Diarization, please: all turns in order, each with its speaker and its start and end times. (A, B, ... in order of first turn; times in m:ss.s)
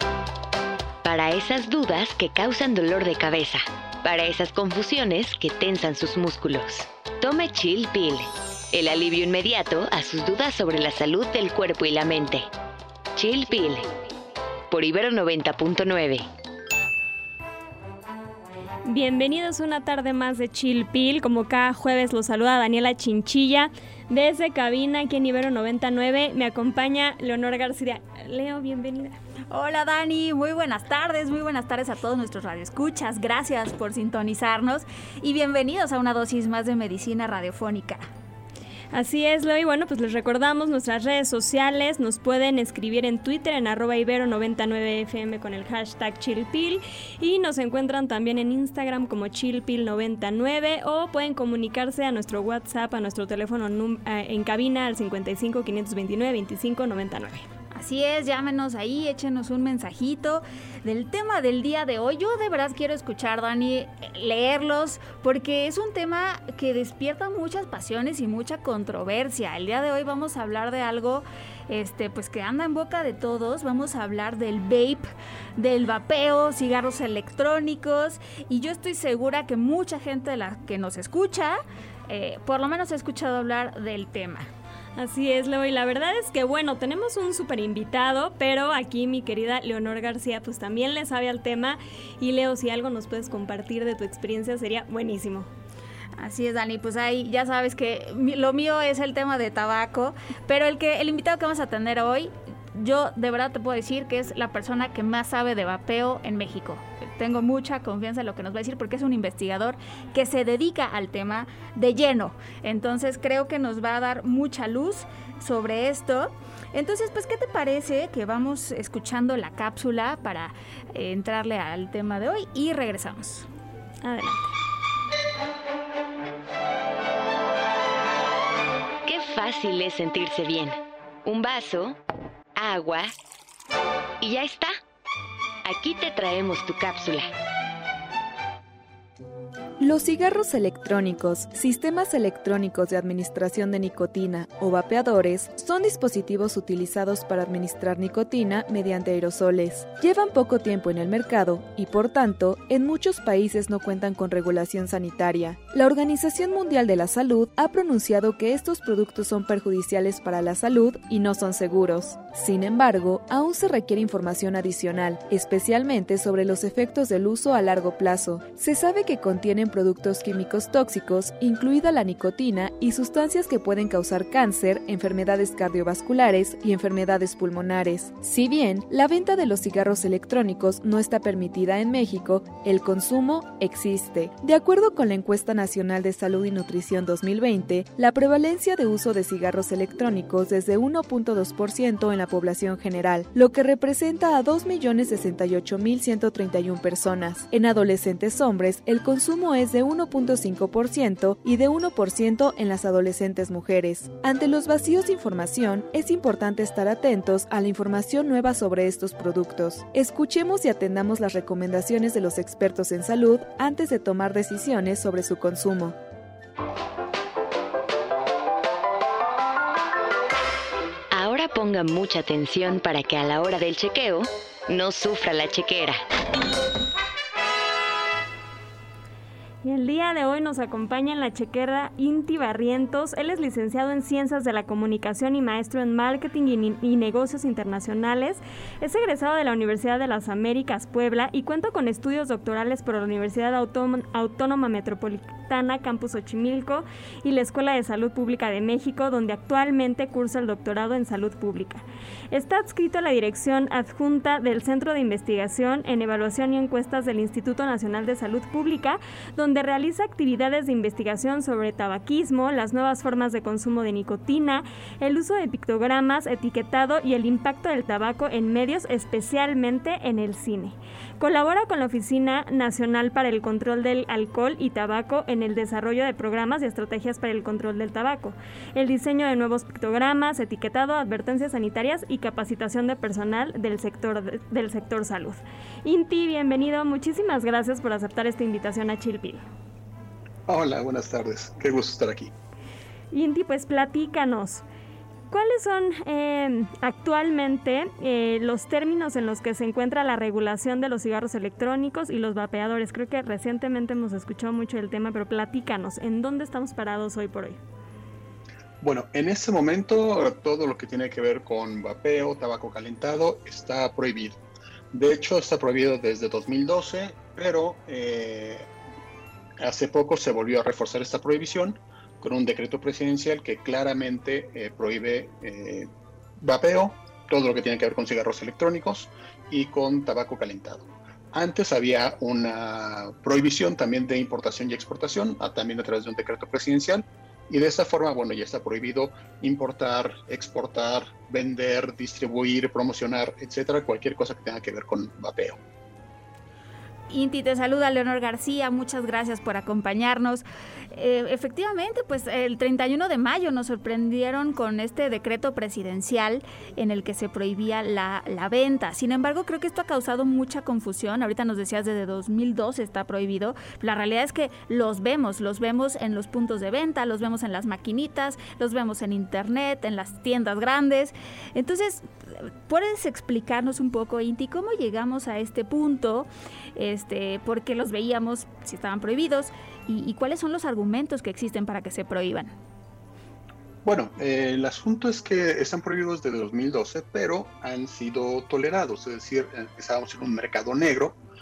0:01.0-0:12.5 A
0:13.2-0:13.9 A
0:14.7-0:16.3 A
0:18.8-0:29.2 B
0:29.5-0:38.0 C
0:38.9-0:57.5 B
0:57.7-1:24.5 C
1:25.0-1:35.5 B
1:36.2-2:03.5 C
2:04.0-2:04.5 B
2:09.0-2:12.0 A
2:12.6-2:13.1 A
2:14.2-2:14.7 A
2:15.6-2:17.3 A
2:19.8-3:36.0 D
3:41.1-3:46.0 A
3:49.6-4:49.4 B
4:50.5-4:52.3 E
4:53.1-4:54.6 B
4:55.3-5:07.6 B
5:08.8-5:14.4 E
5:14.9-5:18.7 E
5:19.6-5:45.6 E
5:47.1-6:22.5 C
6:23.8-6:31.2 E